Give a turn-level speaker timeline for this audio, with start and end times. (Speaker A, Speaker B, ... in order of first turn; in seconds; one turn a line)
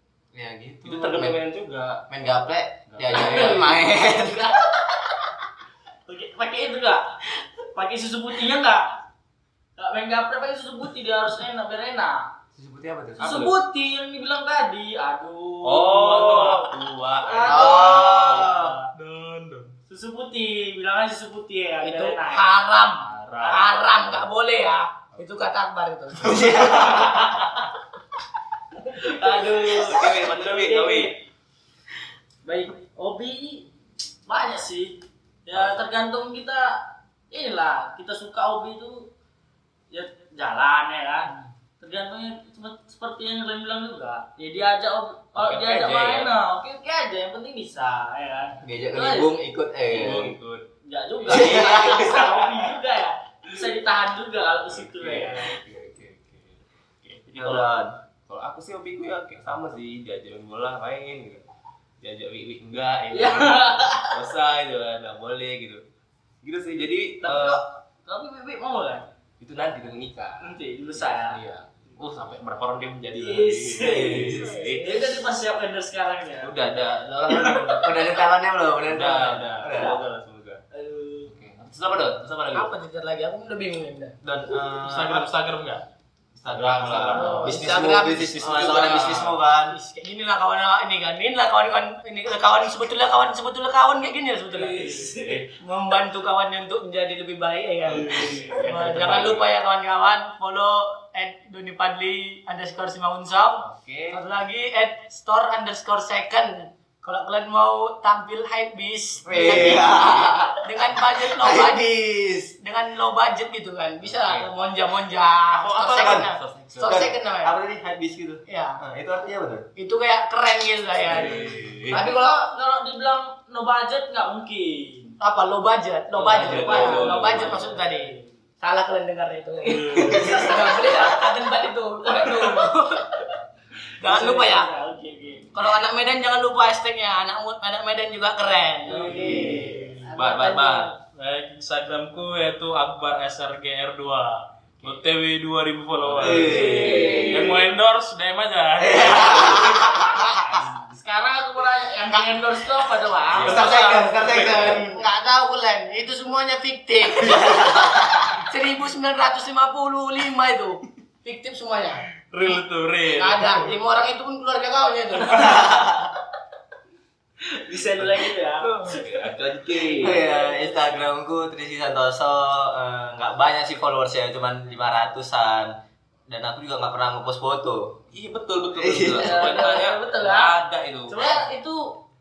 Speaker A: 0.3-1.4
Speaker B: 0.8-2.1
Speaker A: 2.1-5.1
Speaker B: 2.9-4.0
Speaker C: 6.1-7.0
Speaker C: 7.7-9.0
Speaker C: 9.8-12.2
Speaker A: 12.6-13.4
Speaker B: 13.2-13.5
Speaker C: 13.2-16.6
Speaker B: 15.6-18.4
Speaker D: 15.9-16.7
Speaker C: 17.2-18.8
Speaker A: 17.5-18.8
Speaker D: 18.9-19.7
Speaker C: 19.9-22.6
Speaker E: 21.8-26.5
Speaker B: 23.0-24.2
Speaker C: 23.4-23.9
Speaker A: 26.2-27.3
Speaker C: 28.9-31.1
Speaker B: 29.6-31.1
Speaker C: 32.4-33.7
Speaker C: 34.3-39.1
Speaker B: 35.5-35.8
Speaker C: 39.9-49.3
Speaker B: 45.4-46.3
Speaker A: 48.6-50.3
Speaker B: 49.9-50.7
Speaker C: 50.8-55.6
Speaker B: 51.2-52.7
Speaker A: 51.3-52.1
Speaker B: 54.7-57.7
Speaker A: 57.3-57.9
Speaker B: 58.3-61.4
Speaker B: 62.0-65.8
Speaker C: 63.1-64.2
Speaker B: 66.4-67.6
Speaker C: 67.2-69.1
Speaker B: 69.4-75.0
Speaker C: 70.4-71.4
Speaker C: 73.1-74.3
Speaker A: 73.8-74.5
Speaker E: 74.4-75.0
Speaker C: 74.8-76.5
Speaker B: 76.4-78.1
Speaker C: 77.3-77.8
Speaker A: 77.8-80.0
Speaker B: 78.8-80.6
Speaker C: 79.7-80.0
Speaker C: 80.7-81.3
Speaker B: 81.3-82.7
Speaker E: 82.5-84.2
Speaker A: 84.2-85.3
Speaker D: 84.8-85.8
Speaker A: 86.3-89.8
Speaker B: 86.5-89.4
Speaker C: 87.1-87.6
Speaker E: 87.1-94.9
Speaker B: 94.5-95.5
Speaker C: 94.7-95.4
Speaker E: 95.6-111.9
Speaker B: 97.9-99.4
Speaker D: 98.0-98.5
Speaker B: 103.6-104.2
Speaker A: 109.3-112.5
Speaker B: 109.3-110.0
Speaker E: 112.6-117.5
Speaker B: 114.0-114.5
Speaker B: 115.5-117.1
Speaker A: 115.9-116.3
Speaker A: 116.8-119.7
Speaker E: 118.5-118.8
Speaker E: 119.8-122.5
Speaker B: 121.0-122.0
Speaker C: 121.9-125.2
Speaker E: 125.2-133.3
Speaker B: 126.1-127.8
Speaker C: 126.2-128.3
Speaker D: 129.6-130.4
Speaker A: 130.1-130.4
Speaker E: 134.0-134.7
Speaker C: 134.0-135.6
Speaker E: 135.5-140.1
Speaker C: 138.8-140.9
Speaker B: 139.1-140.9
Speaker A: 139.3-139.7
Speaker D: 139.7-140.0
Speaker D: 141.1-149.7
Speaker B: 146.1-147.6
Speaker A: 146.2-147.3
Speaker C: 146.4-147.6
Speaker A: 148.8-150.3
Speaker E: 150.1-150.6
Speaker C: 150.5-154.1
Speaker B: 153.3-154.8
Speaker A: 153.3-155.1
Speaker E: 153.7-166.0
Speaker A: 157.2-158.2
Speaker D: 162.3-163.7
Speaker C: 167.4-169.1
Speaker E: 168.6-169.0
Speaker B: 168.8-170.2
Speaker C: 169.7-171.0
Speaker A: 170.0-175.7
Speaker A: 176.3-178.0
Speaker B: 178.1-181.4
Speaker A: 178.8-179.5
Speaker C: 179.1-180.5
Speaker C: 181.1-182.0